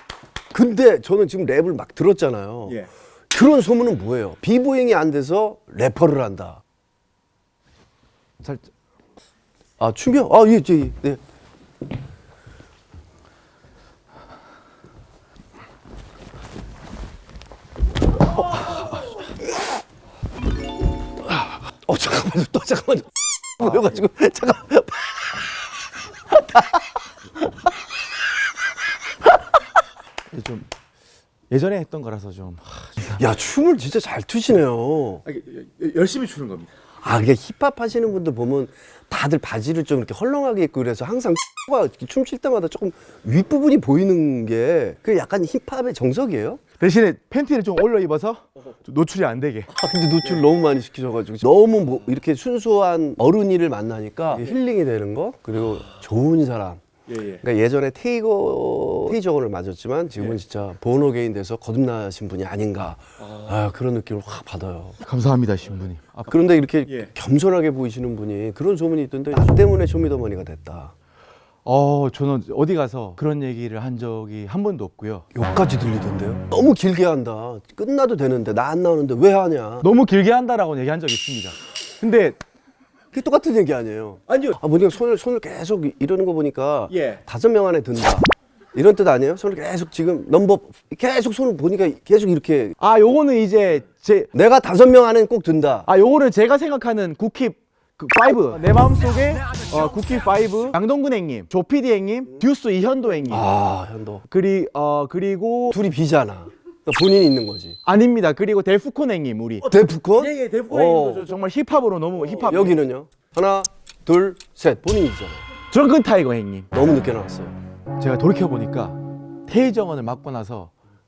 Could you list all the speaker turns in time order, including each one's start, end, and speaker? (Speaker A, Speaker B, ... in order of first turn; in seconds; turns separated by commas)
Speaker A: 0.5-6.6, Speaker B: 8.4-8.7, Speaker A: 9.8-11.2, Speaker A: 21.7-23.1, Speaker A: 23.6-25.3, Speaker A: 26.3-26.8, Speaker B: 30.3-30.7, Speaker B: 31.5-33.2, Speaker A: 33.2-35.2, Speaker B: 35.3-36.7, Speaker A: 37.0-46.6, Speaker B: 46.8-49.7, Speaker A: 49.8-65.0, Speaker B: 65.0-66.3, Speaker A: 66.3-70.9, Speaker B: 71.7-75.3, Speaker A: 75.3-79.9, Speaker B: 79.8-82.4, Speaker A: 83.1-92.8, Speaker B: 84.3-84.6, Speaker B: 86.9-87.2, Speaker B: 92.8-94.3, Speaker A: 94.3-95.9, Speaker B: 95.9-103.5, Speaker A: 103.3-104.2, Speaker B: 104.3-105.8, Speaker A: 105.7-107.8, Speaker B: 107.8-109.7, Speaker A: 109.7-111.3, Speaker B: 110.2-112.8, Speaker A: 112.3-115.4, Speaker B: 115.7-116.7, Speaker A: 116.7-117.6, Speaker B: 118.0-120.7